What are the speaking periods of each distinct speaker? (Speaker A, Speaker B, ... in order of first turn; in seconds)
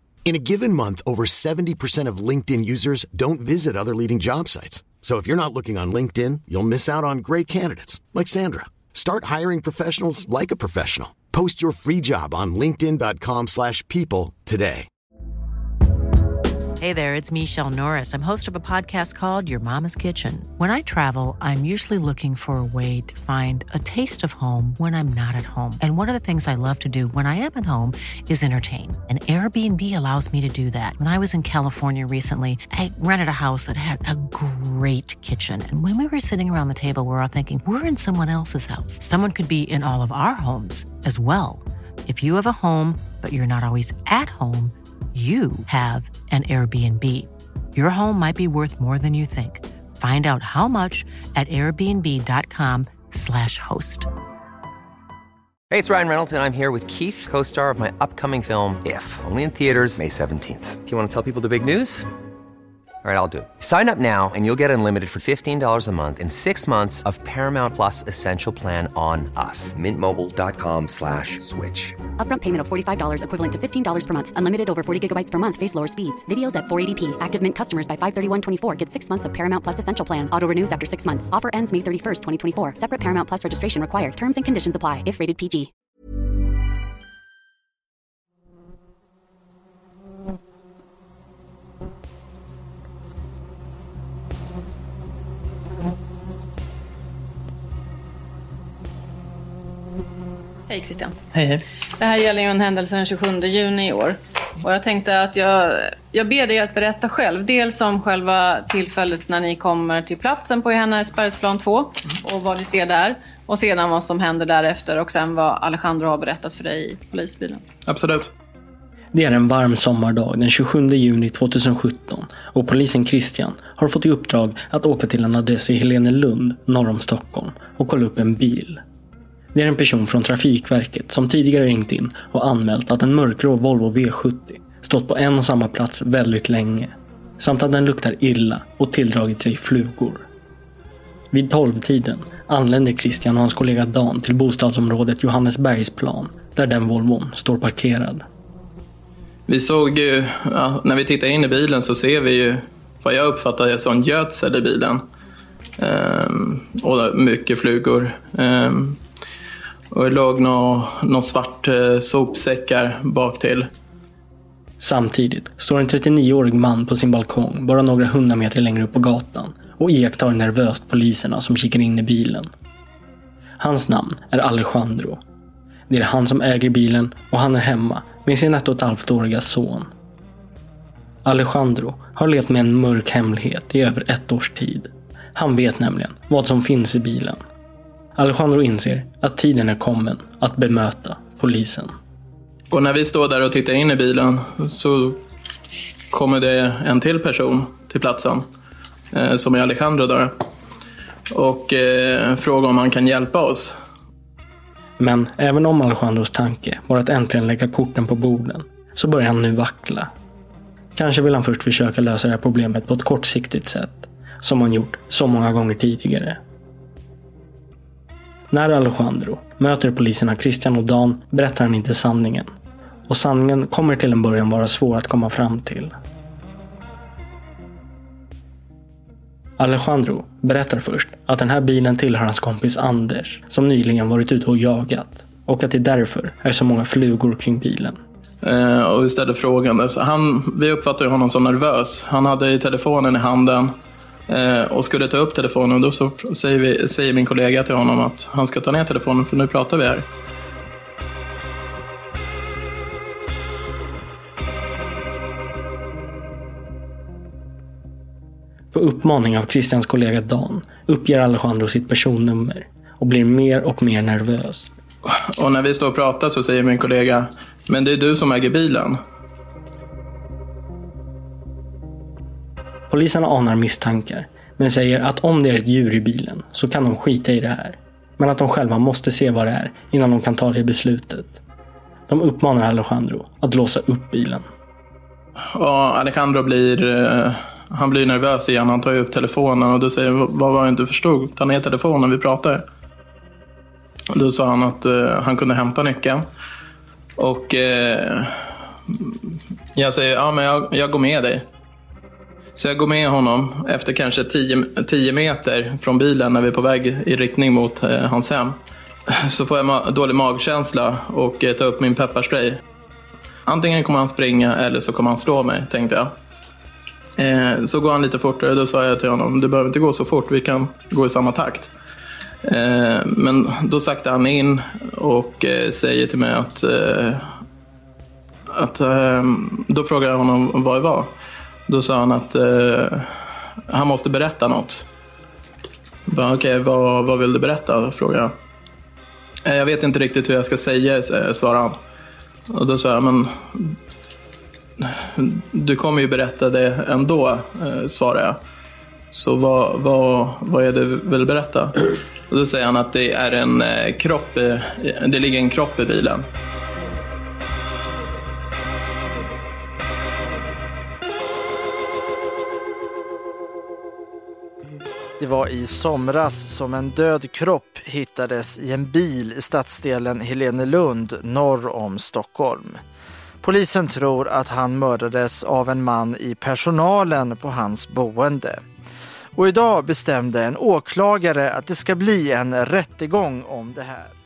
Speaker A: 0.2-14.8
Speaker B: 16.8-54.1
Speaker C: 55.7-62.1, 63.0-72.0
Speaker D: 72.2-85.7
Speaker E: 100.7-101.2, 102.0-117.6
Speaker F: 101.3-101.6, 117.9-118.3, 149.5-155.0, 155.8-159.0, 159.9-163.7, 192.7-195.2, 196.1-198.4, 199.1-200.3, 201.3-203.7, 238.4-243.7, 244.3-250.1, 265.0-269.0, 285.5-292.6, 294.1-296.2, 297.2-299.2, 299.7-301.4, 302.5-312.6, 313.5-316.1, 317.2-321.7, 322.4-327.4, 328.5-331.1, 331.7-334.9, 336.1-338.3, 339.4-341.8, 342.5-343.8, 344.8-348.4, 349.1-356.3
Speaker G: 119.1-128.8, 129.5-140.2, 141.3-148.2, 164.8-172.5, 173.6-175.2, 175.9-179.9, 181.2-187.4, 188.2-191.9, 205.0-210.1, 210.9-216.4, 218.5-222.5, 223.1-225.9, 229.6-238.0, 258.7-264.7, 272.9-281.4, 282.1-284.4
Speaker H: 365.2-372.8, 373.4-378.6, 379.4-384.1